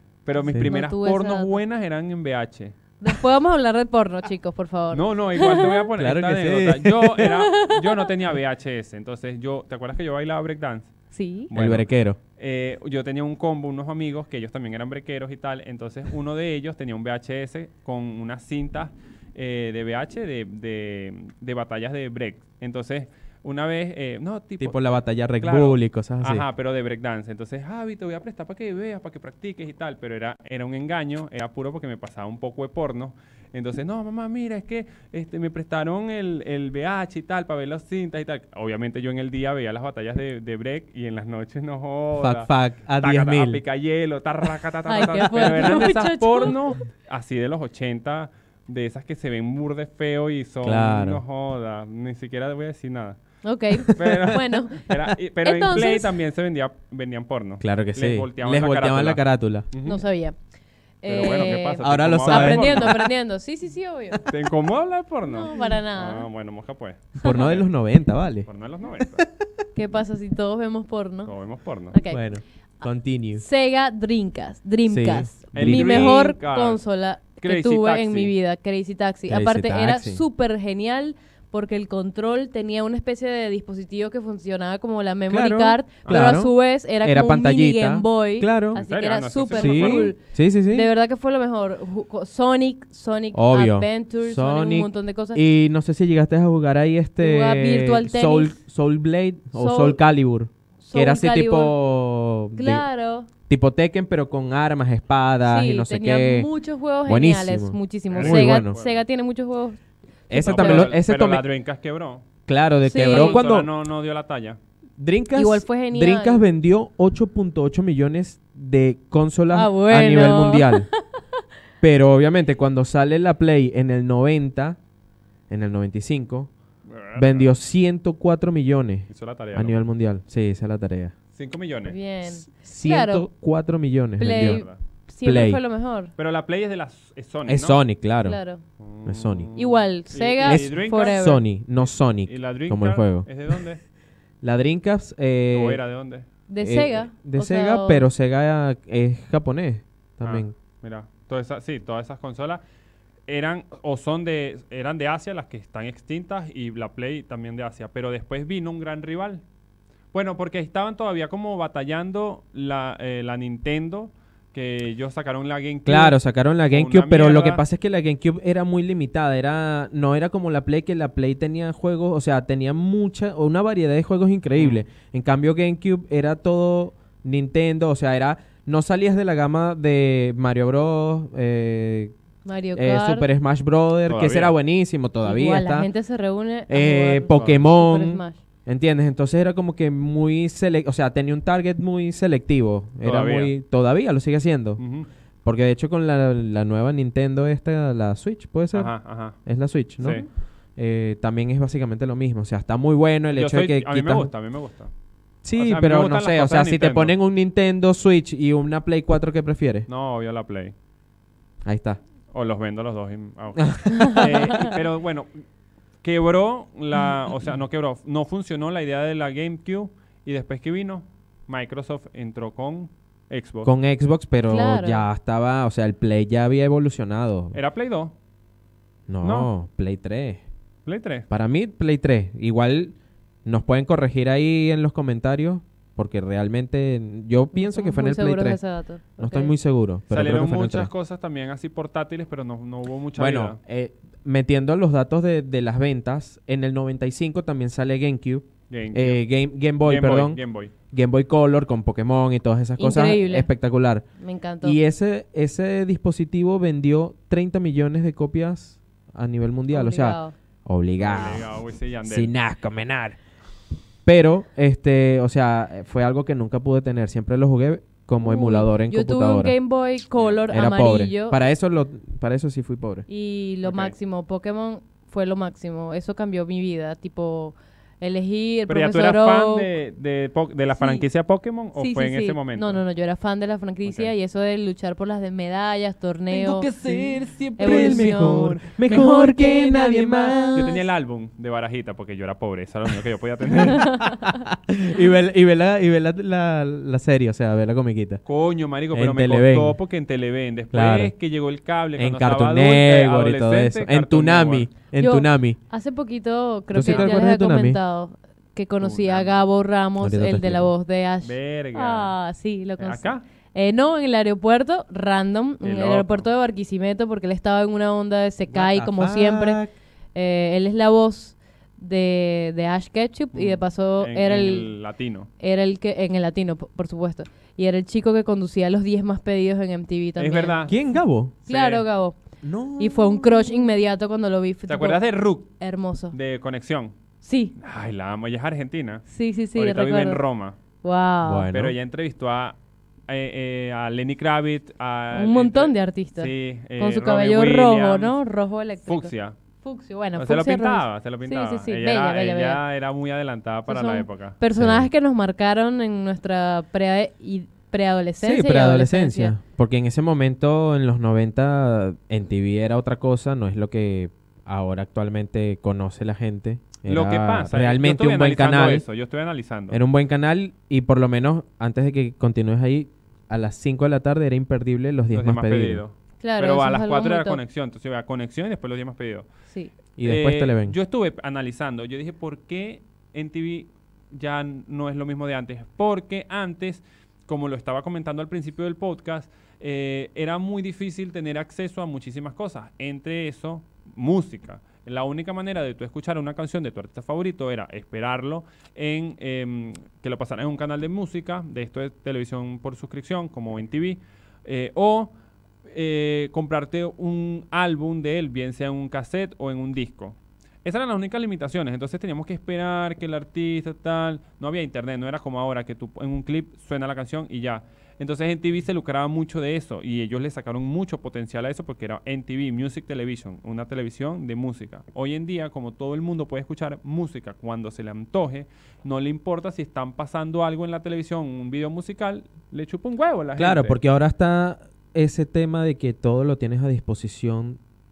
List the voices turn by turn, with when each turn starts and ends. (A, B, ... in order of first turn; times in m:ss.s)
0:00.2-0:02.7 A
0:00.4-0:01.6 B
0:03.0-0:05.8 B
0:04.9-0:10.9 A
0:06.0-0:07.3 C
0:07.2-0:08.0 B
0:11.1-0:11.5 B
0:11.5-0:53.2 A
0:11.5-0:12.2 C
0:24.6-0:26.4 C
0:42.2-0:43.6 C
0:44.9-0:46.6 B
0:50.6-0:51.2 C
0:53.4-0:54.8 B
0:53.8-1:00.0 A
0:55.4-0:56.1 B
0:57.6-0:59.7 C
0:59.8-1:00.4 B
1:01.0-1:04.2 B
1:01.0-1:03.0 A
1:01.8-1:03.1 C
1:04.3-1:07.6 A
1:05.2-1:06.3 B
1:07.2-1:08.5 C
1:08.5-1:09.2 A
1:09.0-1:09.2 C
1:09.7-1:11.3 B
1:11.2-1:11.9 A
1:11.9-1:12.2 B
1:12.1-1:13.4 C
1:13.4-1:30.2 B
1:14.9-1:16.2 C
1:15.5-1:16.8 A
1:17.4-1:18.3 A
1:19.3-1:20.2 C
1:25.3-1:28.8 C
1:26.0-1:26.4 A
1:28.7-1:30.1 A
1:29.5-1:30.9 C
1:30.7-1:35.4 B
1:33.3-1:42.8 C
1:37.2-1:38.6 B
1:39.5-1:40.0 B
1:40.8-1:41.8 B
1:42.6-1:43.3 B
1:43.5-1:46.5 C
1:45.4-1:49.8 B
1:47.0-1:48.8 C
1:48.1-1:49.0 A
1:50.3-1:50.9 B
1:50.3-1:51.4 C
1:50.4-1:52.3 A
1:52.5-1:53.7 C
1:52.8-1:53.4 B
1:53.0-1:54.6 A
1:55.0-2:00.9 C
1:55.3-1:56.4 B
1:59.5-2:01.0 B
2:01.8-2:04.8 C
2:05.5-2:06.5 C
2:06.8-2:07.5 A
2:07.2-2:11.1 C
2:09.1-2:09.8 A
2:11.3-2:12.0 A
2:11.8-2:13.2 B
2:12.4-2:14.6 C
2:14.2-2:16.1 B
2:14.4-2:14.8 A
2:15.2-2:15.6 C
2:16.2-2:17.8 A
2:17.4-2:18.4 C
2:18.2-2:18.6 B
2:18.8-2:21.2 A
2:19.0-2:19.5 C
2:19.5-2:21.4 B
2:20.4-2:23.3 C
2:22.2-2:23.8 A
2:24.4-2:25.8 C
2:25.5-2:26.2 A
2:26.5-2:28.1 B
2:26.6-2:30.5 C
2:30.2-2:32.6 A
2:33.3-2:39.4 A
2:40.1-2:46.2 A
2:45.8-3:02.1 C
2:46.7-2:47.6 A
2:54.6-2:54.8 A
3:02.4-3:03.2 B
3:02.7-3:05.9 C
3:04.1-3:04.5 A
3:05.2-3:08.4 B
3:06.7-3:14.8 C
3:07.3-3:07.6 A
3:13.0-3:13.5 A
3:14.8-3:15.1 A
3:15.4-3:18.9 C
3:18.7-3:19.4 A
3:19.4-3:20.2 C
3:20.0-3:20.3 A
3:20.8-3:24.3 C
3:23.3-3:24.9 A
3:25.4-3:29.9 C
3:25.6-3:27.1 A
3:29.9-3:30.7 A
3:31.6-3:32.0 C
3:32.3-3:35.3 A
3:33.6-3:34.7 C
3:33.9-3:34.7 B
3:36.0-3:43.7 A
3:43.6-3:47.6 C
3:44.5-3:45.0 B
3:47.5-3:48.1 A
3:49.1-3:50.4 C
3:49.2-3:49.5 A
3:50.8-3:51.3 A
3:51.3-3:58.6 C
3:57.5-3:59.5 B
3:59.2-4:00.9 C
4:00.1-4:03.6 A
4:03.2-4:10.4 C
4:08.7-4:09.2 A
4:09.8-4:10.7 A
4:10.9-4:14.0 C
4:12.8-4:13.5 B
4:14.2-4:14.8 B
4:14.6-4:21.5 C
4:19.7-4:20.3 B
4:21.0-4:22.3 A
4:22.0-4:23.2 C
4:24.0-4:29.5 C
4:28.2-4:31.4 B
4:30.5-4:33.0 C
4:33.1-4:39.7 B
4:33.6-4:33.9 A
4:38.7-4:42.8 A
4:40.8-4:41.0 B
4:41.8-4:46.8 B
4:43.8-4:44.1 A
4:46.3-4:48.8 A
4:46.8-4:50.8 C
4:47.6-4:50.8 B
4:50.5-4:54.0 A
4:53.5-4:58.2 C
4:53.6-4:54.3 B
4:58.2-5:04.7 A
4:58.9-4:59.8 C
5:00.7-5:01.1 C
5:02.0-5:05.6 C
5:05.0-5:19.6 B
5:06.7-5:07.8 C
5:06.8-5:07.2 A
5:08.8-5:09.4 A
5:10.0-5:10.7 C
5:11.2-5:12.1 A
5:12.8-5:13.2 A
5:15.6-5:16.3 A
5:18.5-5:19.7 C
5:20.1-5:24.7 B
5:23.3-5:25.3 A
5:25.4-5:30.6 B
5:30.2-5:30.8 A
5:30.7-5:31.3 C
5:31.4-5:31.8 A
5:31.5-5:32.2 B
5:32.4-5:33.6 C
5:32.8-5:36.1 B
5:34.7-5:35.5 A
5:36.1-5:36.9 A
5:37.2-5:37.5 B
5:37.6-5:40.6 A
5:39.1-5:40.2 B
5:40.8-5:41.5 B
5:41.2-5:41.8 C
5:41.5-5:42.6 A
5:43.1-5:48.2 A
5:45.1-5:49.1 B
5:48.9-5:49.4 A
5:49.6-5:52.6 B
5:50.2-5:54.4 A
5:53.7-5:59.3 B
5:54.6-5:54.9 C
5:58.2-6:08.8 C
6:06.8-6:09.8 A
6:09.7-6:15.8 C
6:15.1-6:19.2 A
6:16.2-6:17.4 B
6:20.0-6:20.8 C
6:20.0-6:45.1 A
6:45.7-7:13.8 A
7:13.4-7:17.6 C